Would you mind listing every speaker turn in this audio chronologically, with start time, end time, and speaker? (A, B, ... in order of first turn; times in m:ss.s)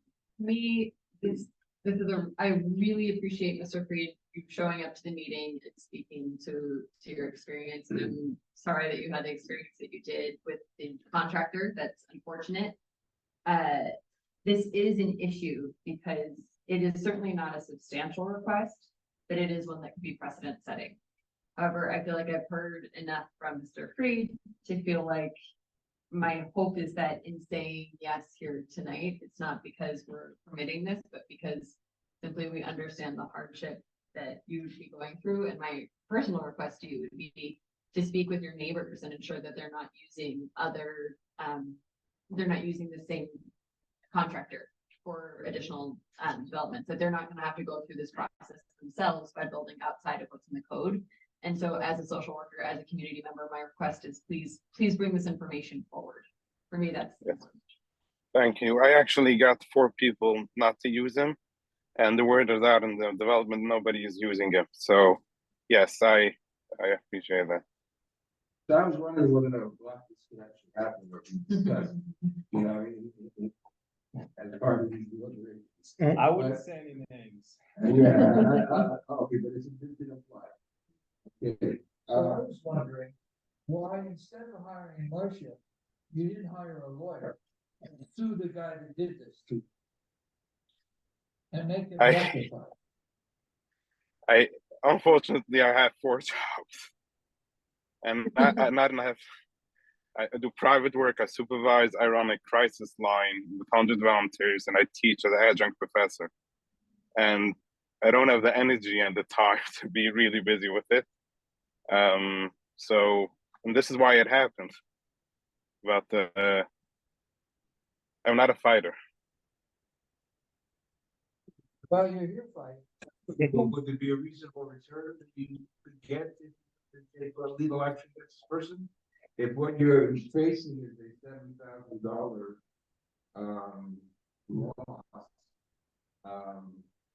0:00.4-0:12.8 A
0:13.5-0:13.9 A
0:14.4-0:21.0 A
0:21.6-0:25.4 A
0:26.1-0:41.8 A
0:42.3-0:43.4 A
0:44.1-0:57.5 A
0:58.3-1:01.4 B
1:02.0-1:07.6 B
1:08.7-1:13.5 C
1:14.4-1:16.6 C
1:16.2-1:18.2 D
1:17.8-1:20.5 C
1:21.4-1:22.4 C
1:22.1-1:23.1 E
1:23.7-1:25.6 E
1:26.1-1:27.3 E
1:28.1-1:29.6 E
1:31.5-1:32.7 E
1:32.0-1:32.5 B
1:34.3-1:36.9 B
1:38.0-1:39.2 B
1:40.2-1:46.3 B
1:47.2-1:51.0 B
1:51.9-1:54.8 B
1:55.8-1:56.7 B
1:58.2-1:58.9 B
2:01.9-2:02.8 E
2:03.4-2:12.6 C
2:13.4-2:15.4 C
2:16.2-2:16.9 C